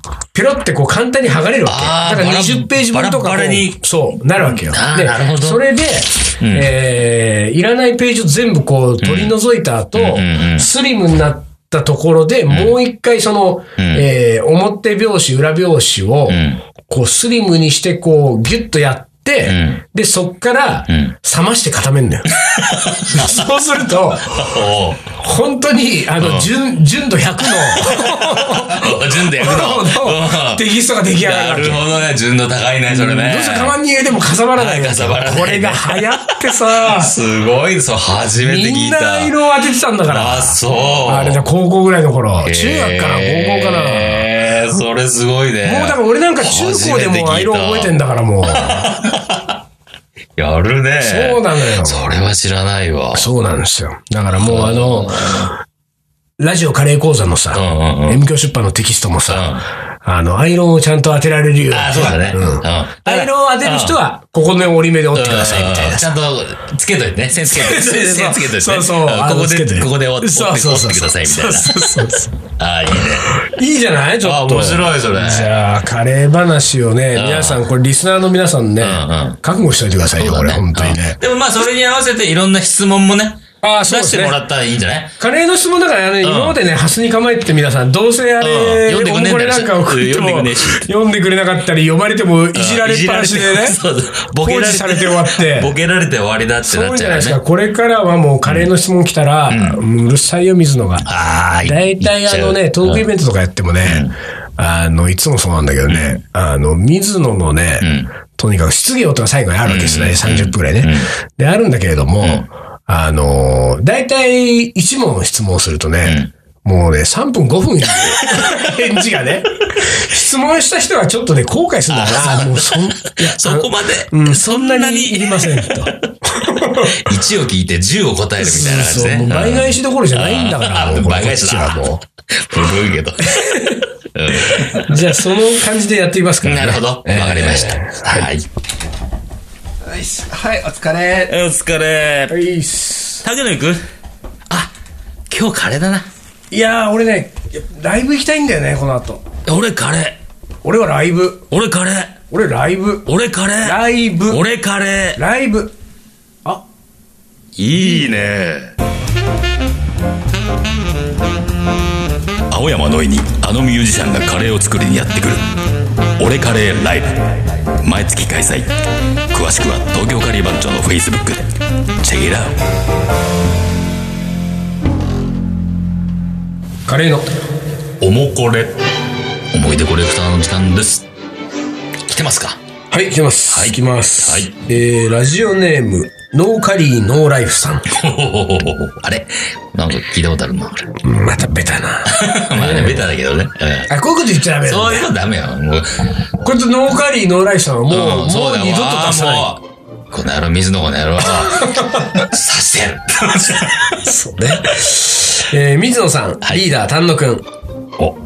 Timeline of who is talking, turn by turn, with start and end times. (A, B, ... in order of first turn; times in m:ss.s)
0:00.3-0:24.6 A
0:01.7-0:03.8 B
0:04.4-0:05.6 B
0:06.4-0:06.7 B
0:09.0-0:09.4 B
0:10.0-0:10.7 B
0:12.5-0:12.8 B
0:13.8-0:14.0 B
0:16.3-0:16.6 B
0:19.4-0:19.8 B
0:20.9-0:21.2 B
0:22.4-0:23.5 B
0:24.2-0:25.0 B
0:25.1-0:31.8 A
0:26.2-0:26.5 B
0:27.4-0:33.8 B
0:32.9-0:37.2 A
0:34.5-0:39.4 B
0:38.4-0:44.3 A
0:40.1-0:41.4 B
0:42.4-0:49.6 B
0:45.6-0:49.0 A
0:50.4-0:53.3 B
0:51.0-0:52.1 A
0:53.1-0:55.6 A
0:54.3-0:55.5 B
0:56.4-1:06.1 A
0:57.5-0:58.2 B
0:59.3-0:59.6 B
1:01.7-1:04.0 B
1:05.1-1:13.3 B
1:07.5-1:12.3 A
1:13.0-1:21.2 A
1:14.2-1:15.5 B
1:17.1-1:17.6 B
1:18.8-1:19.4 B
1:20.2-1:25.1 B
1:23.6-1:24.4 A
1:25.2-1:33.8 A
1:26.2-1:26.6 B
1:28.4-1:30.9 B
1:32.5-1:37.4 B
1:34.4-1:35.7 A
1:36.7-1:41.1 A
1:38.4-1:38.7 B
1:39.5-1:39.8 B
1:41.0-1:43.1 B
1:41.6-2:07.1 A
1:43.8-1:44.2 B
1:45.9-1:46.2 B
1:47.8-1:48.1 B
1:49.6-1:51.1 B
1:56.0-1:56.3 B
1:57.9-1:58.6 B
2:01.9-2:06.0 B
2:06.8-2:13.4 B
2:08.4-2:12.0 A
2:13.2-2:18.3 A
2:14.1-2:15.1 B
2:16.4-2:18.5 B
2:19.9-2:21.3 A
2:21.3-2:22.4 B
2:22.3-2:23.2 A
2:23.2-2:23.8 B
2:25.3-2:26.1 B
2:26.5-2:29.2 A
2:29.5-2:30.2 B
2:30.6-2:31.5 A
2:31.5-2:32.2 B
2:32.3-2:34.5 A
2:33.1-2:35.2 B
2:35.2-2:35.7 A
2:37.6-2:38.7 B
2:42.5-2:45.4 B
2:46.2-2:48.7 B
2:49.3-2:52.6 B
2:56.9-2:57.3 A
2:58.0-2:58.8 B
2:59.5-3:01.1 B
3:02.1-3:02.6 B
3:02.9-3:07.9 A
3:03.5-3:04.5 B
3:07.9-3:10.9 B
3:11.0-3:13.1 A
3:12.1-3:13.9 B
3:13.9-3:15.1 A
3:14.6-3:16.0 B
3:16.4-3:19.5 A
3:17.9-3:24.0 B
3:21.4-3:22.1 A
3:23.9-3:27.5 A